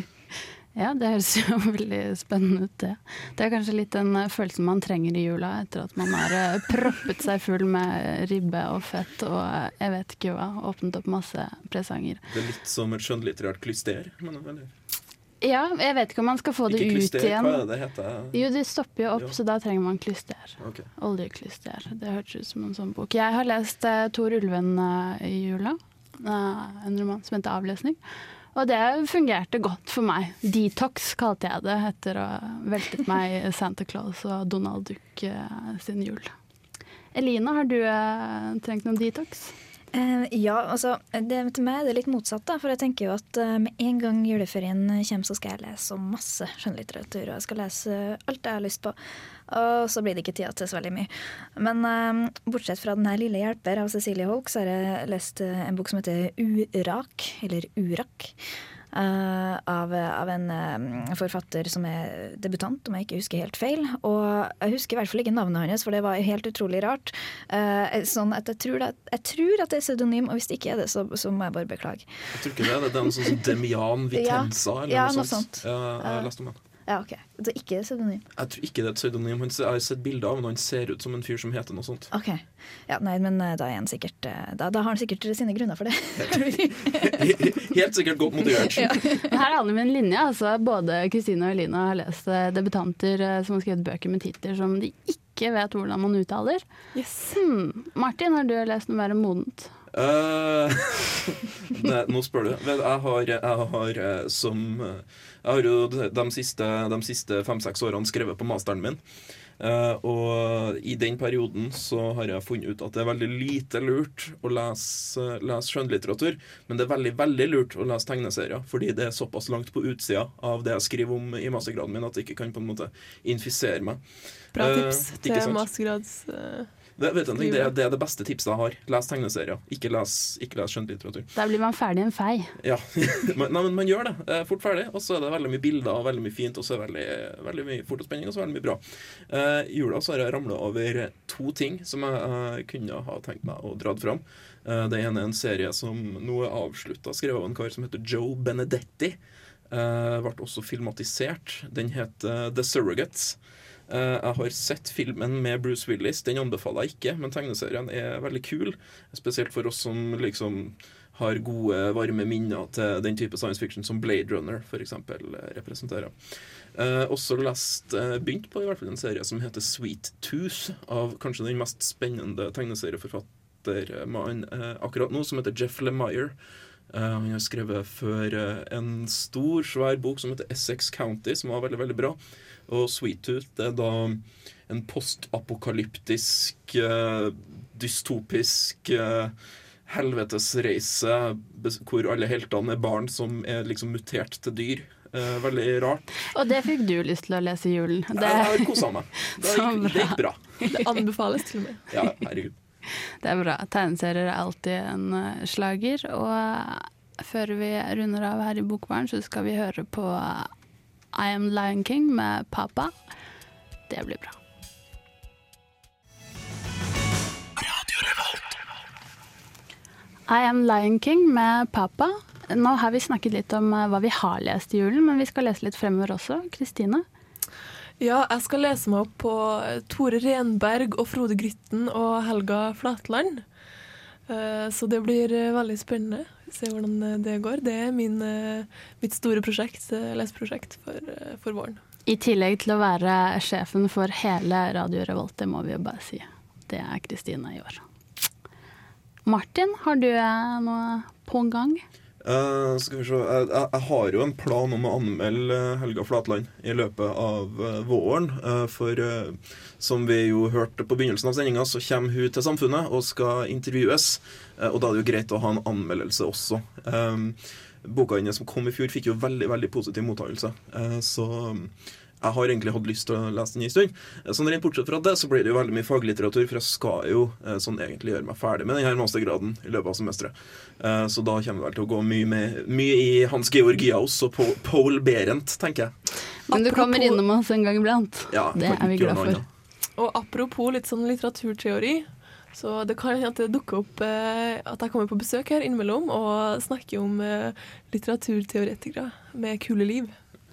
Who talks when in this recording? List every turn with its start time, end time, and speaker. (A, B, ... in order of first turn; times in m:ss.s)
0:00.8-0:12.2 A
0:12.3-0:14.7 B
0:15.4-0:17.7 A
0:16.7-0:18.4 B
0:18.3-0:28.0 A
0:20.6-0:20.9 B
0:28.5-0:36.3 A
0:37.1-0:39.5 A
0:39.9-0:49.0 C
0:49.5-0:58.4 C
0:58.9-1:13.5 C
1:12.3-1:16.6 B
1:14.1-1:16.3 C
1:16.9-1:18.2 C
1:18.4-1:22.1 B
1:22.1-1:27.6 C
1:27.0-1:29.0 B
1:28.5-1:29.3 C
1:29.3-1:36.6 A
1:36.9-1:37.4 D
1:37.3-1:39.7 A
1:39.9-1:49.0 B
1:49.6-2:04.0 B
2:04.6-2:05.7 B
2:04.6-2:06.7 D
2:07.0-2:11.3 B
2:07.4-2:07.7 D
2:11.4-2:12.6 A
2:12.6-2:29.2 B
2:29.7-2:46.1 B
2:46.8-2:56.4 B
2:56.9-3:09.3 B
3:09.9-3:16.0 B
3:16.3-3:20.8 A
3:18.1-3:20.4 B
3:20.7-3:21.9 D
3:21.9-3:22.6 B
3:23.2-3:30.5 A
3:31.1-3:32.9 A
3:33.9-3:34.4 A
3:40.3-3:47.0 A
3:48.0-3:53.4 D
3:54.3-4:01.8 D
4:02.1-4:07.8 A
4:09.3-4:11.8 A
4:12.2-4:45.9 B
4:46.5-4:47.2 D
4:46.5-4:49.4 A
4:48.3-4:49.5 B
4:50.0-5:00.2 D